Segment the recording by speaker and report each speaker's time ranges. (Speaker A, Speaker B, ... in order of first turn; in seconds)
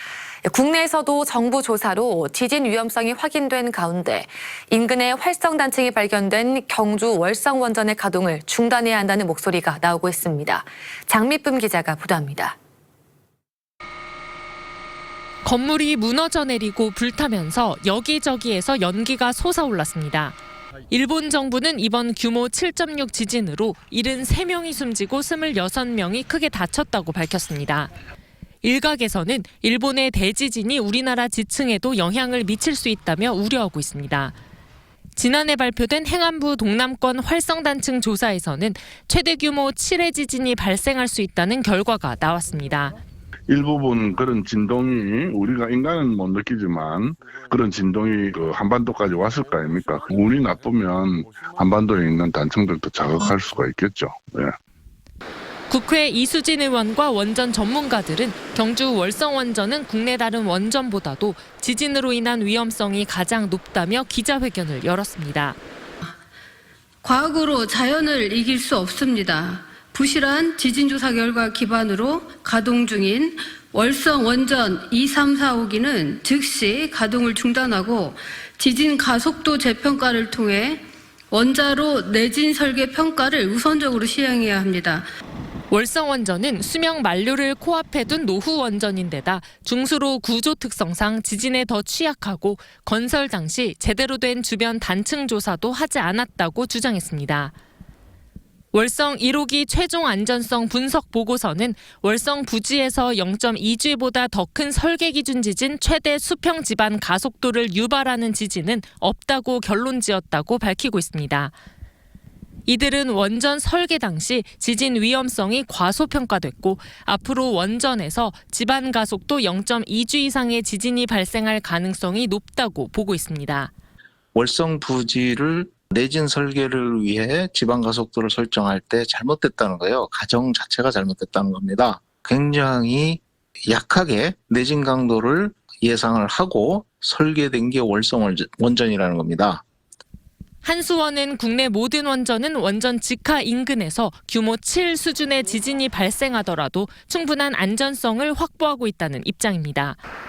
Speaker A: 0.4-12.6
Speaker B: 15.4-20.4, 20.9-27.9, 28.6-34.4, 35.1-43.0, 55.7-65.6, 85.7-97.5, 98.7-111.5, 112.7-123.7, 140.6-150.0
Speaker C: 43.5-54.5
Speaker D: 67.0-80.8, 81.3-85.0
Speaker E: 124.3-139.6